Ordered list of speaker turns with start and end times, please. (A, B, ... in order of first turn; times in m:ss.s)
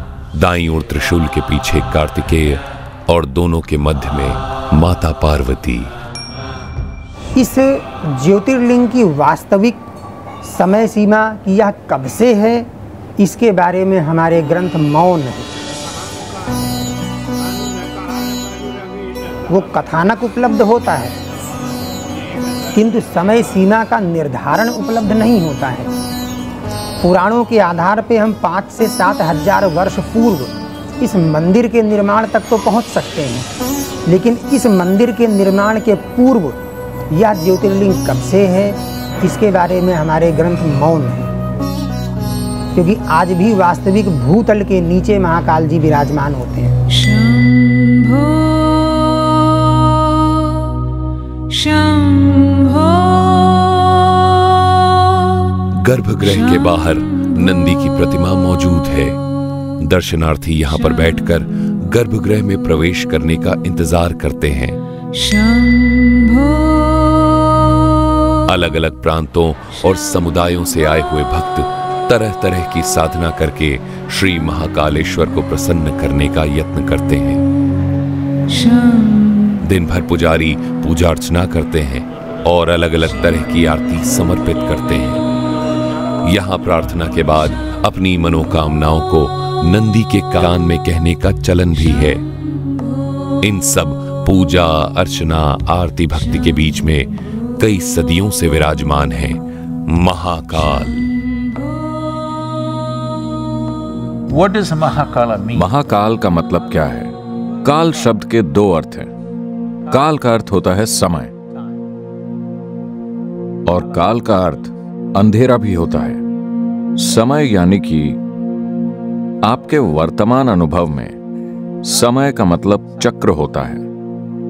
0:00.3-0:05.9 A
0:07.4-0:09.8 B
0:10.4-0:12.7 B
0:13.2-0:15.5 B
0:19.5-0:21.1 B
0:22.7-0:25.9 B
0:27.0-0:33.5 B
0:34.0-0:36.6 B
0:37.1-0:41.3 B
0:42.7-0:46.7 B
0:47.1-0:48.2 C
0:55.7-0:59.2 A
0:59.8-1:05.4 A
1:08.4-1:17.4 A
1:19.6-1:25.2 A
1:26.2-1:32.2 A
1:33.4-1:41.1 A
1:44.3-1:45.6 C
1:45.5-1:49.1 D
1:49.9-1:51.3 D
1:53.6-1:56.2 D
1:57.0-1:58.2 D
1:59.4-2:01.2 D
2:01.8-2:03.8 D